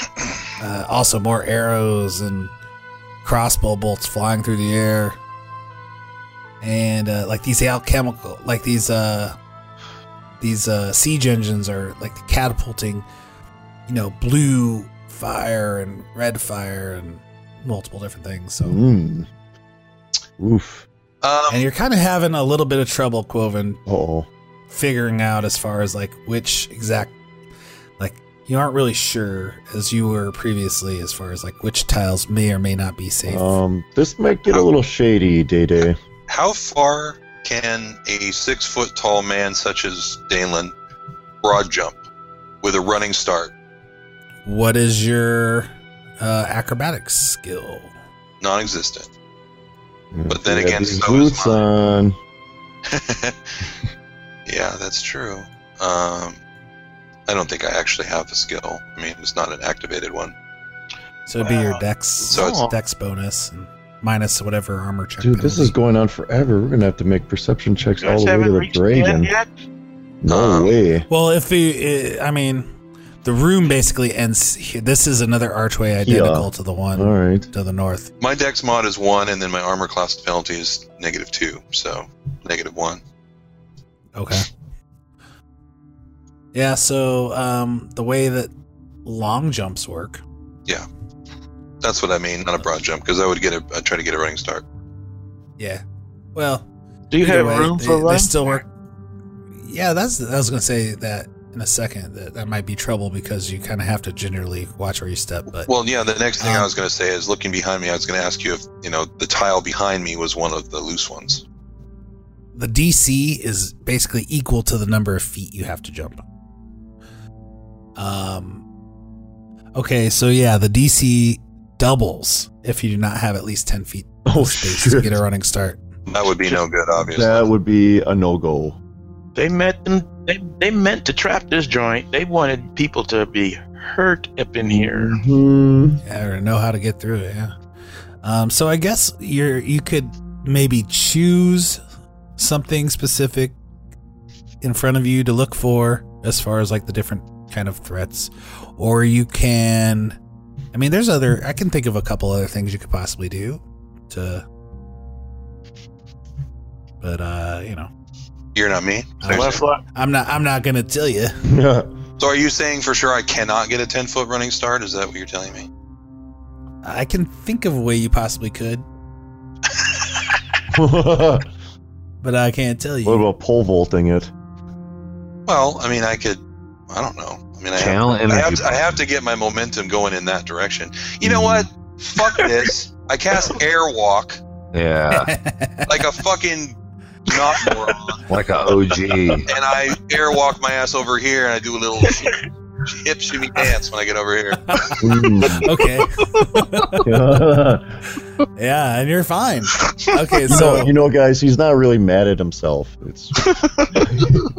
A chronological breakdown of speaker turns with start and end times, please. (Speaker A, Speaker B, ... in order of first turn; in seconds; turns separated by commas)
Speaker A: 0.6-2.5, Speaker A: 3.2-5.2, Speaker A: 6.6-9.4, Speaker A: 10.4-13.1, Speaker A: 13.9-18.8, Speaker B: 18.6-19.3, Speaker B: 20.4-20.9, Speaker C: 21.2-21.7, Speaker A: 21.5-23.8, Speaker B: 23.9-24.3, Speaker A: 24.7-27.1, Speaker A: 28.0-33.6, Speaker B: 33.3-36.0, Speaker C: 36.3-40.7, Speaker C: 41.4-42.0, Speaker C: 42.6-43.5, Speaker A: 44.5-47.9, Speaker C: 48.4-49.1, Speaker B: 50.1-52.2, Speaker C: 50.3-51.6, Speaker C: 52.9-53.4, Speaker C: 54.5-56.4, Speaker C: 57.3-60.3, Speaker A: 61.3-65.7, Speaker D: 61.4-62.7, Speaker C: 62.3-62.7, Speaker B: 65.2-69.3, Speaker D: 68.0-69.5, Speaker B: 70.2-71.1, Speaker C: 70.3-70.8, Speaker A: 71.1-72.7, Speaker A: 73.2-78.1, Speaker B: 76.0-77.5, Speaker C: 78.2-83.0, Speaker A: 84.2-84.5, Speaker A: 86.5-88.5, Speaker A: 89.0-90.2, Speaker C: 91.8-94.6, Speaker A: 95.6-95.8, Speaker A: 96.3-96.7, Speaker D: 97.1-98.6, Speaker A: 97.2-98.7, Speaker A: 99.6-105.7, Speaker C: 105.7-111.4, Speaker A: 106.4-106.7, Speaker A: 112.5-116.2, Speaker A: 118.0-118.6, Speaker A: 119.8-125.8, Speaker B: 124.3-125.2, Speaker C: 126.1-127.5, Speaker B: 127.0-128.8, Speaker D: 129.3-135.2, Speaker B: 134.6-136.0, Speaker A: 136.1-137.5, Speaker A: 138.2-141.8, Speaker A: 142.4-143.6, Speaker A: 144.6-150.2, Speaker A: 150.7-154.4, Speaker A: 157.0-157.9, Speaker C: 158.6-159.6, Speaker A: 159.2-161.3, Speaker D: 159.3-159.8, Speaker B: 161.5-161.9, Speaker C: 162.2-165.7, Speaker A: 166.8-168.8, Speaker B: 170.7-171.5, Speaker A: 172.2-173.3, Speaker B: 173.1-174.3, Speaker C: 175.5-184.4, Speaker E: 177.8-178.8, Speaker B: 181.3-181.7, Speaker D: 182.2-182.7, Speaker E: 184.7-185.3, Speaker A: 185.1-185.9, Speaker C: 185.9-188.2, Speaker E: 188.3-189.5, Speaker C: 189.5-195.0, Speaker D: 192.0-192.4, Speaker B: 195.0-195.7, Speaker A: 195.6-197.0, Speaker B: 197.0-197.9, Speaker A: 198.6-200.9, Speaker B: 200.5-204.4, Speaker D: 203.4-204.0